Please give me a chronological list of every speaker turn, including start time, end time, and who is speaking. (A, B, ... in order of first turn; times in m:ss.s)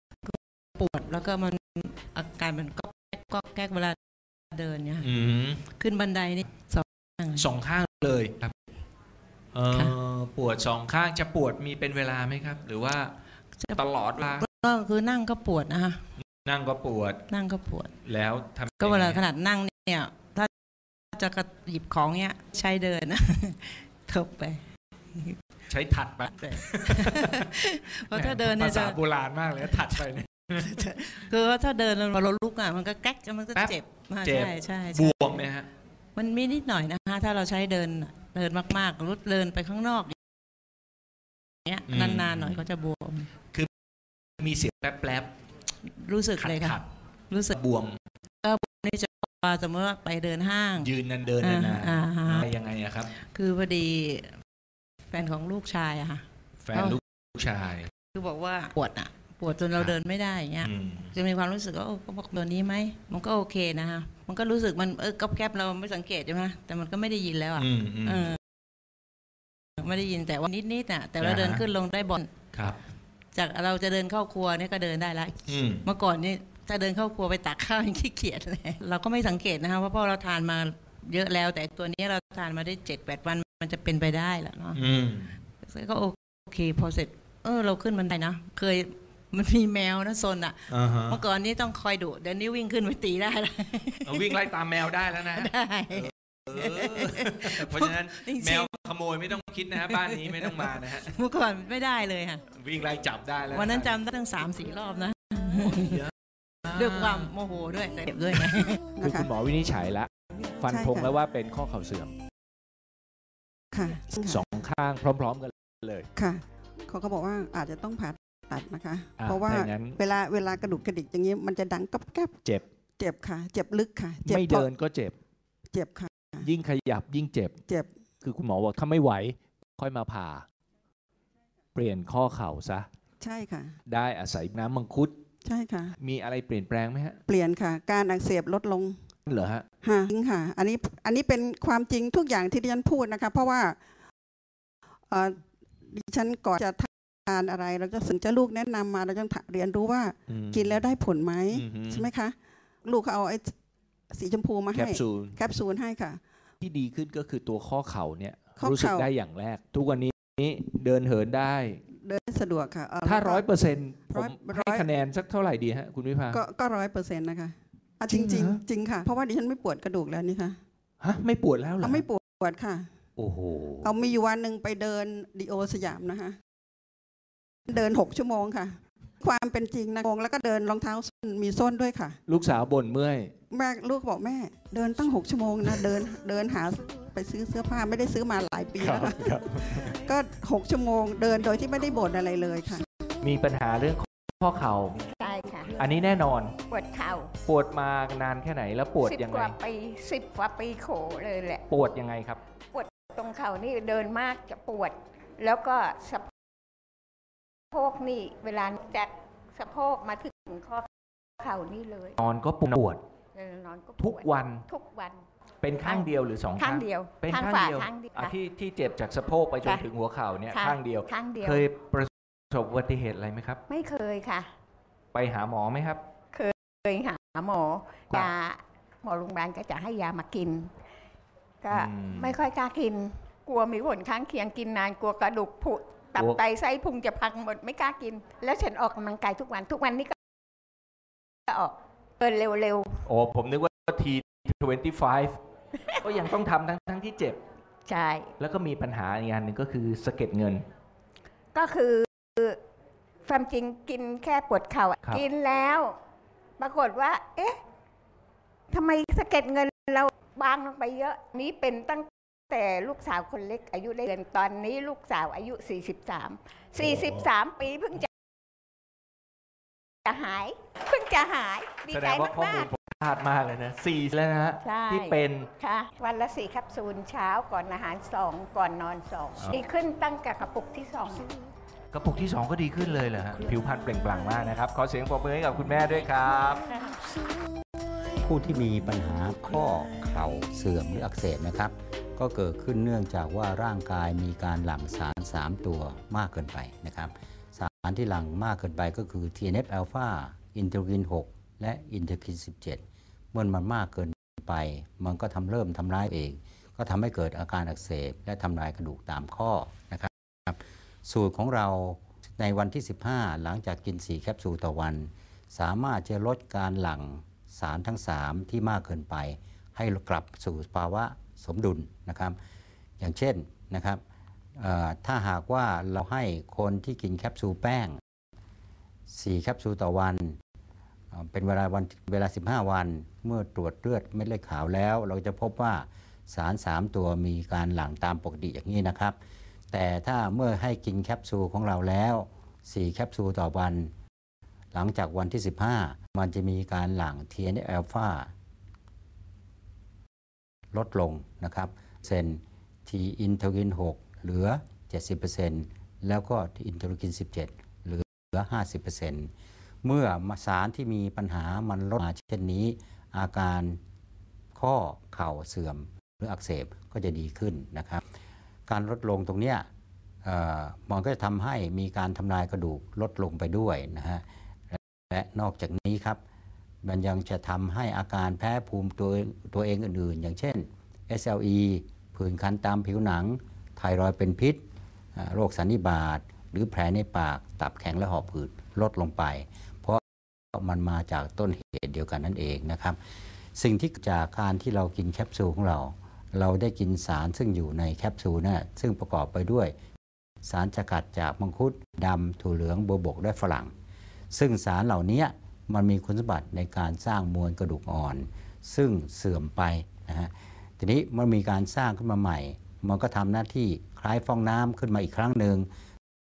0:00.2-0:04.0 A
0:04.5-0:05.1 A
0:05.0-0:05.6 B
0:05.7-0:07.5 A
0:07.4-0:08.5 B
0:09.6-0:13.1 B
0:09.7-0:10.0 A
0:13.6-0:16.0 A
0:13.8-0:14.5 B
0:16.4-0:17.2 B
0:17.3-0:17.9 A
0:18.0-0:19.2 B
0:18.7-0:20.5 A
0:21.1-0:24.6 A
0:25.7-0:26.3 B
0:26.3-0:29.0 A
0:28.1-0:28.6 B
0:29.4-0:29.9 B
0:29.6-0:35.5 A
0:33.5-0:35.7 B
0:36.1-0:40.1 A
0:41.6-0:43.3 A
0:41.9-0:42.6 B
0:44.4-0:45.3 B
0:45.8-0:47.6 A
0:47.5-0:48.0 B
0:48.4-0:52.5 A
0:50.8-0:53.1 B
0:53.1-0:54.4 A
0:55.1-0:57.0 A
0:56.7-0:57.8 B
0:58.0-1:08.4 A
1:07.6-1:08.3 B
1:09.8-1:12.3 A
1:11.2-1:11.7 B
1:13.3-1:24.8 A
1:15.5-1:15.8 B
1:24.7-1:25.3 B
1:25.6-1:38.7 A
1:30.7-1:31.2 B
1:34.0-1:41.1 B
1:39.3-1:42.4 A
1:42.5-1:44.0 B
1:43.5-1:46.1 A
1:45.6-1:46.1 B
1:46.7-1:47.3 B
1:46.7-1:49.0 A
1:49.0-1:49.3 C
1:49.0-1:52.1 B
1:50.6-1:51.2 C
1:53.7-1:54.5 C
1:54.1-1:56.1 B
1:56.2-2:02.4 C
1:59.2-2:00.0 B
2:03.0-2:04.7 C
2:04.2-2:05.2 B
2:05.7-2:06.5 C
2:06.4-2:07.6 B
2:08.2-2:10.4 B
2:11.7-2:12.9 B
2:13.2-2:13.7 C
2:13.9-2:15.2 B
2:15.4-2:15.9 C
2:16.0-2:17.2 B
2:17.3-2:19.0 C
2:19.3-2:19.6 B
2:19.8-2:23.8 C
2:25.1-2:33.5 C
2:30.3-2:30.9 B
2:31.5-2:32.1 B
2:34.1-2:36.2 C
2:34.7-2:35.4 B
2:36.6-2:41.8 B
2:38.6-2:39.1 C
2:41.9-2:43.5 C
2:43.0-2:46.4 B
2:44.1-2:44.9 C
2:46.3-2:50.6 C
2:48.0-2:48.6 B
2:51.0-2:52.0 B
2:51.8-2:52.9 C
2:53.2-2:53.9 B
2:53.8-2:56.4 C
2:57.7-3:02.2 C
3:02.3-3:03.3 B
3:03.5-3:09.3 C
3:08.8-3:09.9 B
3:09.9-3:12.8 C
3:13.2-3:15.0 B
3:15.1-3:15.7 D
3:15.8-3:16.6 B
3:16.7-3:17.3 D
3:17.4-3:19.5 B
3:19.0-3:21.6 D
3:21.7-3:22.4 B
3:22.7-3:26.3 D
3:27.7-3:32.2 D
3:32.2-3:33.0 B
3:33.3-3:35.2 D
3:34.0-3:34.6 B
3:35.6-3:43.6 B
3:35.8-3:38.4 D
3:40.5-3:41.7 D
3:43.7-3:44.5 D
3:45.1-3:46.0 B
3:46.3-3:50.7 D
3:51.6-4:00.2 D
3:51.7-3:52.3 B
4:01.5-4:03.1 D
4:03.1-4:05.4 B
4:06.0-4:07.4 B
4:07.8-4:08.3 D
4:08.4-4:10.6 B
4:11.5-4:12.6 D
4:13.2-4:16.0 D
4:16.6-4:17.6 D
4:18.7-4:28.1 D
4:26.8-4:27.3 B
4:30.0-4:32.7 D
4:31.9-4:35.5 B
4:34.6-4:41.2 D
4:41.9-4:46.6 B
4:48.1-5:02.8 E
5:03.3-5:22.4 E
5:23.0-5:24.0 E
5:24.6-5:28.0 E
5:29.1-5:30.4 E
5:31.1-5:39.2 E
5:39.7-5:43.9 E
5:44.7-5:48.3 E
5:50.7-5:59.3 E
5:59.8-6:03.8 E
6:04.5-6:08.0 E
6:08.7-6:09.7 E
6:10.2-6:16.2 E
6:16.8-6:24.6 E
6:25.2-6:30.0 E
6:30.5-6:33.0 E
6:33.6-6:39.7 E
6:40.4-6:43.7 E
6:44.3-6:55.7 E